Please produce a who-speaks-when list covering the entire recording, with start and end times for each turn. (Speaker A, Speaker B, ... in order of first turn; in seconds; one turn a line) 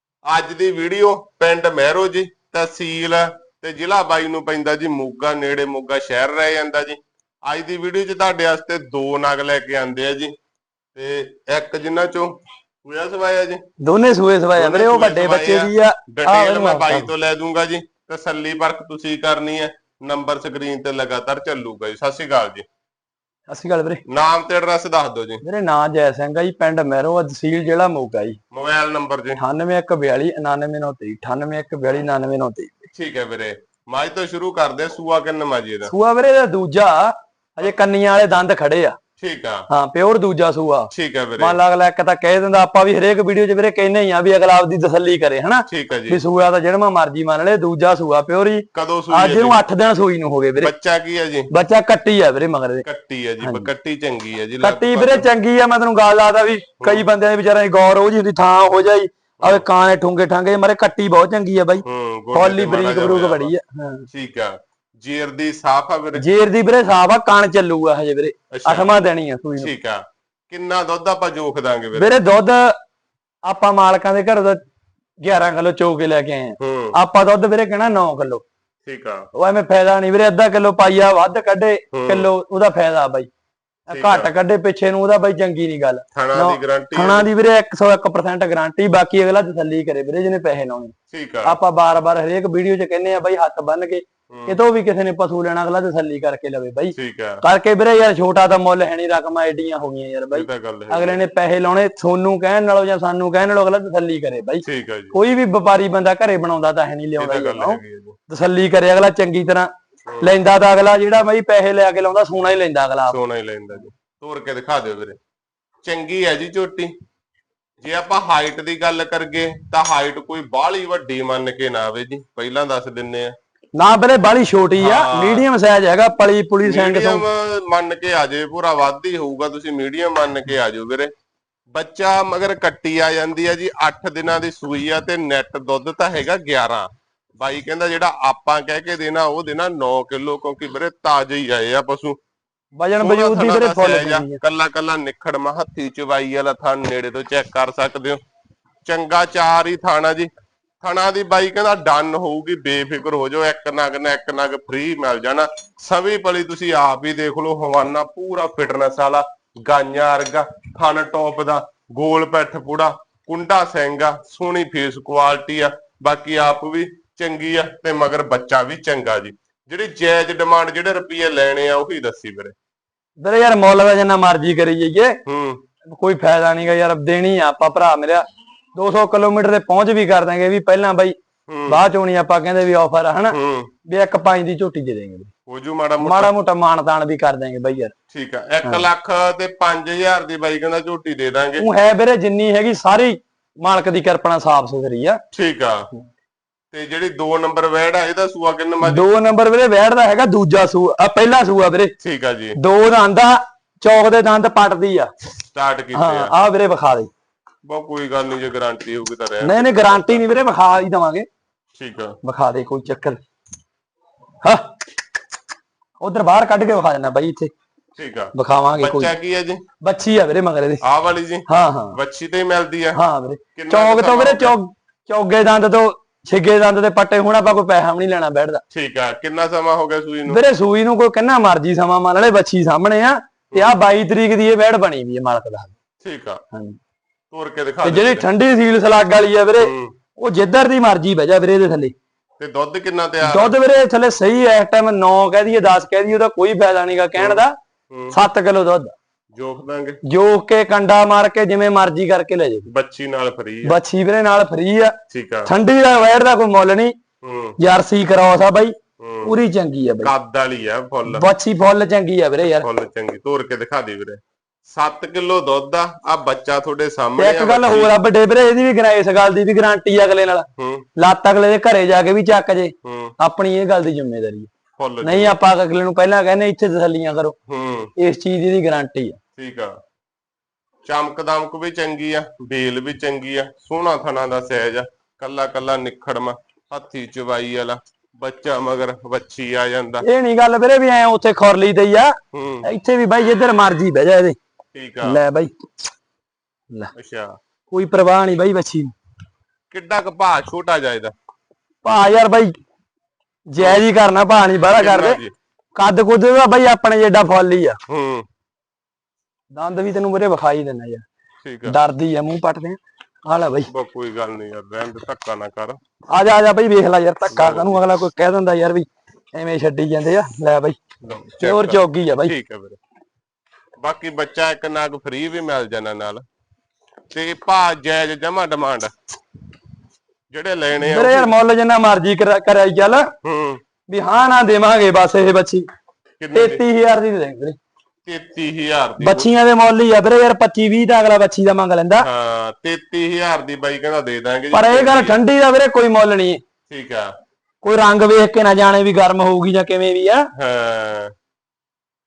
Speaker A: 0.3-10.3
Speaker A: 10.9-12.3
Speaker A: 12.8-13.6
Speaker B: 13.8-17.1
Speaker A: 14.6-22.6
Speaker B: 23.5-24.0
Speaker A: 24.1-25.4
Speaker B: 25.4-28.4
Speaker A: 28.5-29.4
Speaker B: 29.4-32.9
Speaker A: 32.9-35.9
Speaker B: 35.9-39.0
Speaker A: 39.2-39.7
Speaker B: 39.7-50.7
Speaker A: 40.9-41.6
Speaker A: 45.7-46.2
Speaker A: 48.7-49.6
Speaker A: 50.6-51.5
Speaker B: 51.5-52.8
Speaker A: 52.8-55.3
Speaker B: 53.4-53.7
Speaker B: 54.6-61.8
Speaker A: 59.4-59.6
Speaker A: 61.8-63.5
Speaker B: 62.3-64.1
Speaker A: 64.1-66.3
Speaker B: 66.2-69.7
Speaker A: 68.5-68.9
Speaker A: 69.6-72.1
Speaker B: 72.0-72.7
Speaker B: 73.5-74.6
Speaker B: 75.2-78.4
Speaker A: 76.6-77.0
Speaker A: 78.9-79.3
Speaker B: 79.3-83.3
Speaker A: 81.9-82.3
Speaker B: 83.9-90.9
Speaker A: 83.9-84.3
Speaker A: 86.1-87.3
Speaker A: 91.1-91.6
Speaker B: 91.5-109.7
Speaker A: 94.3-94.6
Speaker A: 97.0-97.4
Speaker A: 100.3-101.2
Speaker A: 104.7-105.2
Speaker A: 107.2-108.2
Speaker A: 110.1-110.4
Speaker B: 110.2-113.2
Speaker A: 113.1-115.2
Speaker A: 115.8-116.9
Speaker A: 117.8-123.3
Speaker B: 123.8-127.2
Speaker A: 124.8-125.5
Speaker A: 126.6-131.1
Speaker A: 131.7-136.9
Speaker A: 137.4-142.2
Speaker B: 142.8-144.4
Speaker A: 143.0-148.2
Speaker A: 148.8-150.3
Speaker A: 150.8-172.6
Speaker B: 173.2-175.2
Speaker A: 175.2-175.6
Speaker B: 176.0-178.2
Speaker B: 178.8-181.2
Speaker A: 181.5-181.8
Speaker B: 181.7-183.4
Speaker A: 183.3-183.7
Speaker B: 183.9-185.3
Speaker A: 185.5-186.3
Speaker B: 186.0-187.9
Speaker A: 188.1-191.7
Speaker B: 191.6-195.2
Speaker A: 195.3-195.8
Speaker A: 196.7-199.1
Speaker B: 198.8-201.9
Speaker A: 202.0-202.6
Speaker B: 202.6-205.1
Speaker A: 205.5-206.3
Speaker B: 205.9-207.1
Speaker A: 207.7-210.3
Speaker B: 209.4-211.3
Speaker A: 211.8-212.2
Speaker B: 212.2-213.2
Speaker B: 214.4-214.7
Speaker B: 216.0-217.5
Speaker A: 218.0-219.6
Speaker B: 218.3-219.1
Speaker B: 219.8-220.8
Speaker A: 220.8-223.0
Speaker B: 221.5-222.0
Speaker B: 222.9-228.6
Speaker A: 223.6-224.6
Speaker A: 228.7-230.4
Speaker B: 230.3-235.7
Speaker A: 236.0-236.4
Speaker A: 237.3-238.3
Speaker B: 237.8-241.9
Speaker A: 239.6-239.9
Speaker A: 242.4-243.6
Speaker B: 243.2-247.5
Speaker A: 247.2-248.2
Speaker B: 248.1-248.9
Speaker A: 249.3-250.0
Speaker B: 250.1-252.7
Speaker A: 252.7-253.8
Speaker B: 253.7-254.9
Speaker A: 255.1-255.5
Speaker B: 255.5-256.9
Speaker A: 257.2-257.6
Speaker B: 257.6-258.7
Speaker A: 259.0-259.4
Speaker B: 259.2-260.1
Speaker A: 260.0-261.3
Speaker B: 261.1-262.6
Speaker A: 262.4-267.9
Speaker B: 267.2-274.5
Speaker A: 270.6-270.9
Speaker A: 272.8-273.1
Speaker A: 274.8-275.4
Speaker B: 275.0-277.4
Speaker A: 277.5-277.9
Speaker B: 278.0-279.2
Speaker A: 279.4-279.8
Speaker A: 280.8-290.1
Speaker B: 290.0-292.1
Speaker A: 292.3-292.7
Speaker B: 292.6-294.4
Speaker A: 294.7-295.2
Speaker B: 295.0-295.5
Speaker A: 296.9-297.4
Speaker B: 297.7-298.9
Speaker A: 299.7-301.1
Speaker B: 301.8-302.5
Speaker B: 303.5-305.2
Speaker A: 303.6-303.8
Speaker A: 304.7-305.3
Speaker B: 305.8-307.8
Speaker A: 307.9-308.2
Speaker B: 309.5-311.0
Speaker A: 311.4-311.8
Speaker B: 311.6-313.7
Speaker A: 313.7-315.8
Speaker B: 316.1-320.8
Speaker A: 317.3-317.8
Speaker A: 321.0-322.8
Speaker B: 321.4-322.3
Speaker A: 323.8-326.2
Speaker A: 327.1-328.9
Speaker A: 330.3-331.3
Speaker B: 330.8-333.1
Speaker A: 333.2-333.6
Speaker B: 333.9-335.6
Speaker A: 336.2-336.6
Speaker B: 336.3-337.6
Speaker A: 338.1-339.3
Speaker B: 339.0-342.1
Speaker A: 342.0-345.2
Speaker B: 344.5-346.4
Speaker A: 346.7-347.1
Speaker B: 347.6-350.2
Speaker A: 350.4-351.1